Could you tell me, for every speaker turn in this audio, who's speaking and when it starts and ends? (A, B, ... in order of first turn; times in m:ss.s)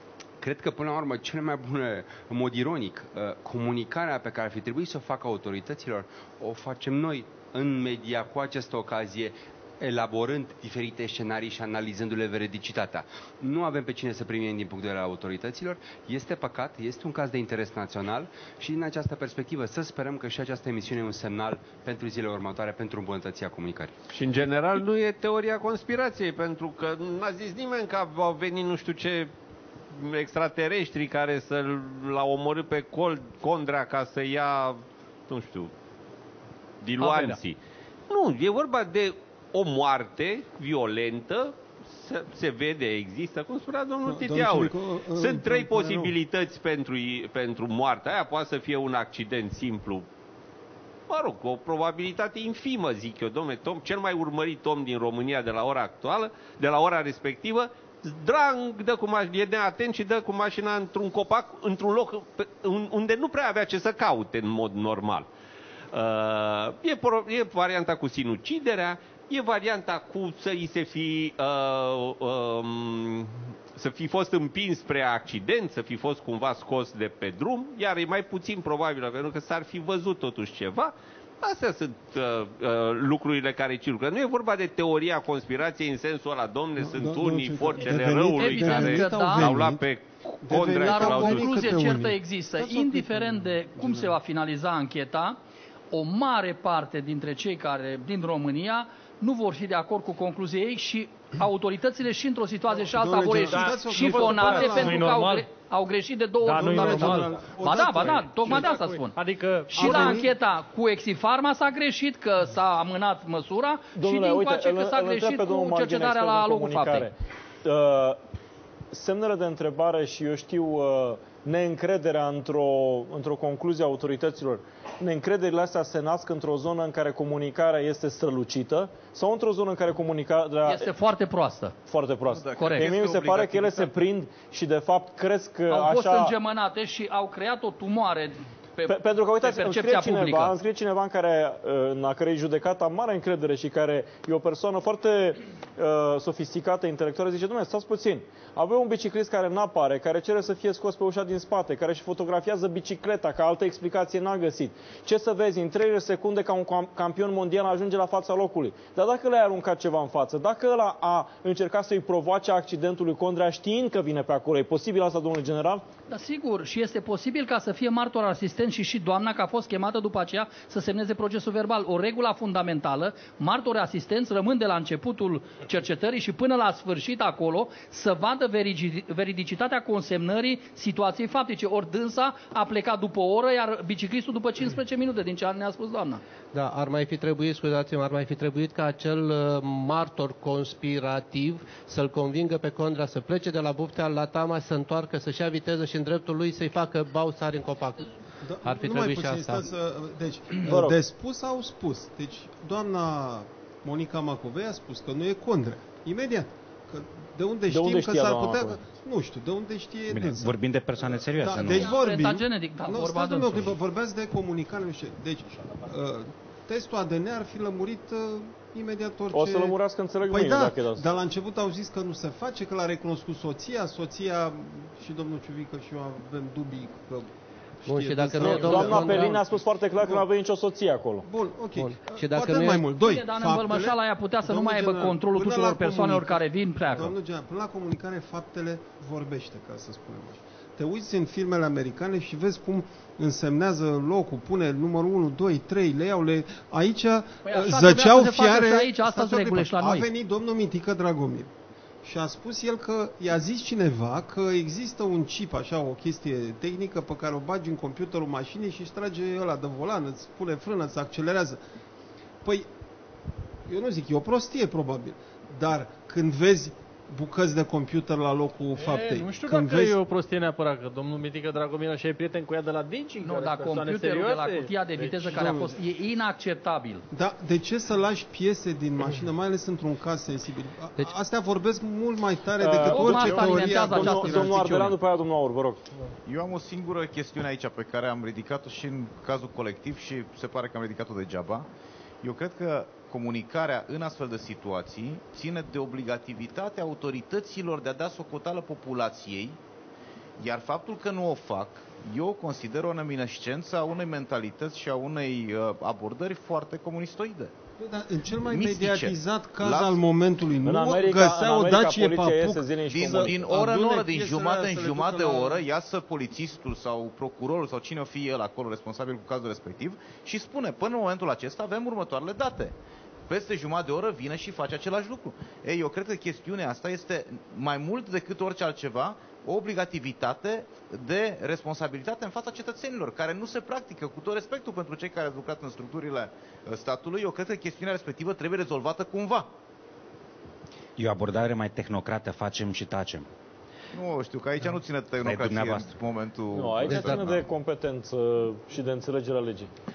0:00.4-0:23.9 A
0:24.1-0:29.3 B
0:29.9-0:35.7 B
0:36.8-0:37.6 B
0:37.0-0:37.4 C
0:38.1-0:50.1 B
0:44.1-0:46.1 D
0:51.1-1:05.3 B
1:05.9-1:31.7 B
1:26.8-1:29.8 D
1:28.3-1:29.6 C
1:30.4-1:34.2 D
1:30.8-1:35.4 C
1:35.9-1:49.2 C
1:42.7-1:45.2 D
1:43.5-1:45.5 E
1:46.4-1:50.2 E
1:46.5-1:49.0 D
1:49.7-1:57.1 C
1:49.7-1:50.4 D
1:54.0-1:58.2 F
1:58.9-2:10.9 F
2:10.6-2:11.8 C
2:11.9-2:16.4 F
2:12.3-2:13.9 G
2:12.6-2:13.0 C
2:15.7-2:20.6 C
2:18.9-2:45.8 F
2:46.1-3:06.2 C
3:06.5-3:18.1 H
3:18.4-3:47.3 D
3:18.6-3:19.7 H
3:20.6-3:21.0 F
3:27.7-3:28.8 F
3:30.1-3:32.0 I
3:31.8-3:33.8 C
3:39.3-3:41.1 F
3:47.8-3:49.4 D
3:47.9-3:49.4 H
3:48.4-3:51.3 F
3:51.2-4:11.5 D
3:51.8-3:52.8 H
3:53.0-3:57.2 C
4:07.4-4:10.1 C
4:12.0-4:21.6 D
4:22.4-4:22.7 D
4:23.7-4:30.0 D
4:28.8-4:35.5 E
4:33.2-4:37.0 C
4:35.4-4:35.8 D
4:37.1-4:44.9 D
4:42.6-4:45.8 F
4:42.7-4:45.0 C
4:46.2-4:51.7 G
4:52.2-4:59.6 G
5:00.4-5:07.5 G
5:07.8-5:15.6 D
5:08.5-5:10.0 G
5:10.6-5:13.4 F
5:12.9-5:22.8 G
5:23.3-5:39.5 G
5:41.0-5:43.3 I
5:43.9-5:47.4 G
5:45.2-5:45.9 I
5:46.5-5:49.7 F